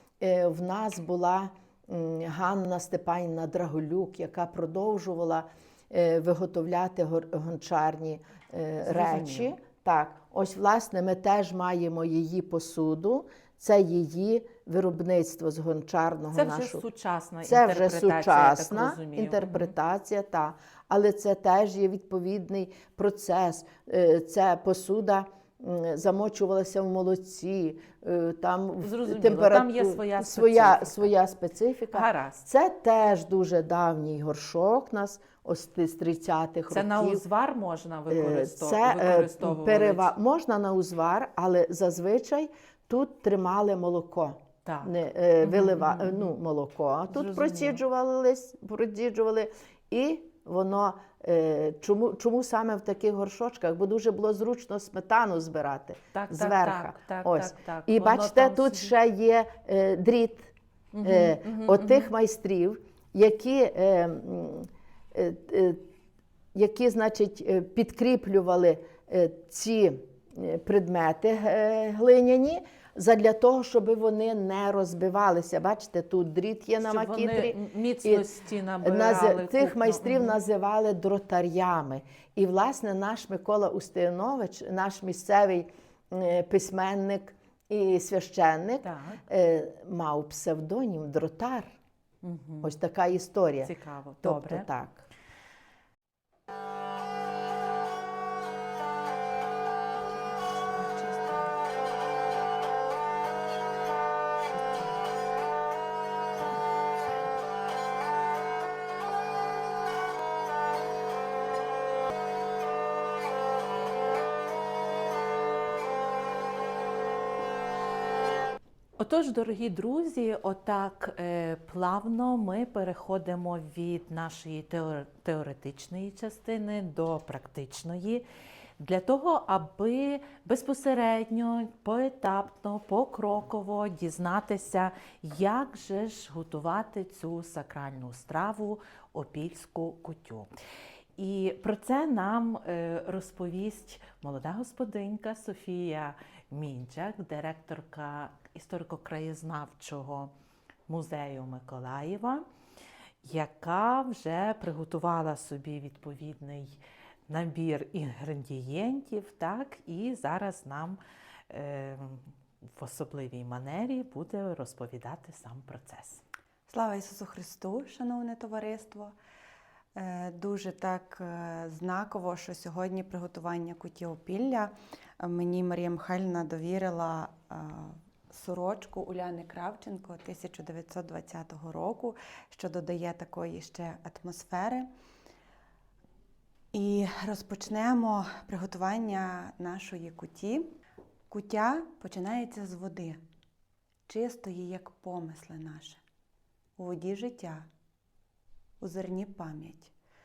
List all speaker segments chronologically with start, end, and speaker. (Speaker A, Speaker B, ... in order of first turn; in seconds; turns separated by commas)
Speaker A: 0.2-16.8, Speaker B: 8.8-9.5, Speaker B: 16.3-19.7, Speaker A: 17.4-37.2, Speaker B: 28.8-31.1, Speaker B: 31.9-32.5, Speaker B: 36.7-40.1, Speaker A: 38.1-65.8, Speaker B: 44.6-46.3, Speaker B: 47.1-47.8, Speaker B: 56.1-58.9, Speaker B: 60.9-62.1, Speaker A: 66.5-78.3, Speaker B: 76.8-80.4, Speaker A: 78.8-91.7, Speaker B: 88.8-89.2, Speaker B: 92.2-92.7, Speaker A: 92.6-93.7, Speaker B: 93.6-94.7, Speaker A: 94.2-95.0, Speaker C: 100.1-101.5, Speaker C: 104.5-105.0, Speaker B: 119.0-128.2, Speaker B: 128.8-140.5, Speaker B: 141.2-150.3, Speaker B: 150.9-152.4, Speaker B: 153.2-161.0, Speaker B: 161.5-166.2, Speaker C: 166.7-169.1, Speaker C: 169.9-184.9, Speaker C: 186.7-190.7, Speaker C: 191.3-193.2, Speaker C: 194.1-196.0, Speaker C: 196.8-197.7, Speaker C: 198.8-199.9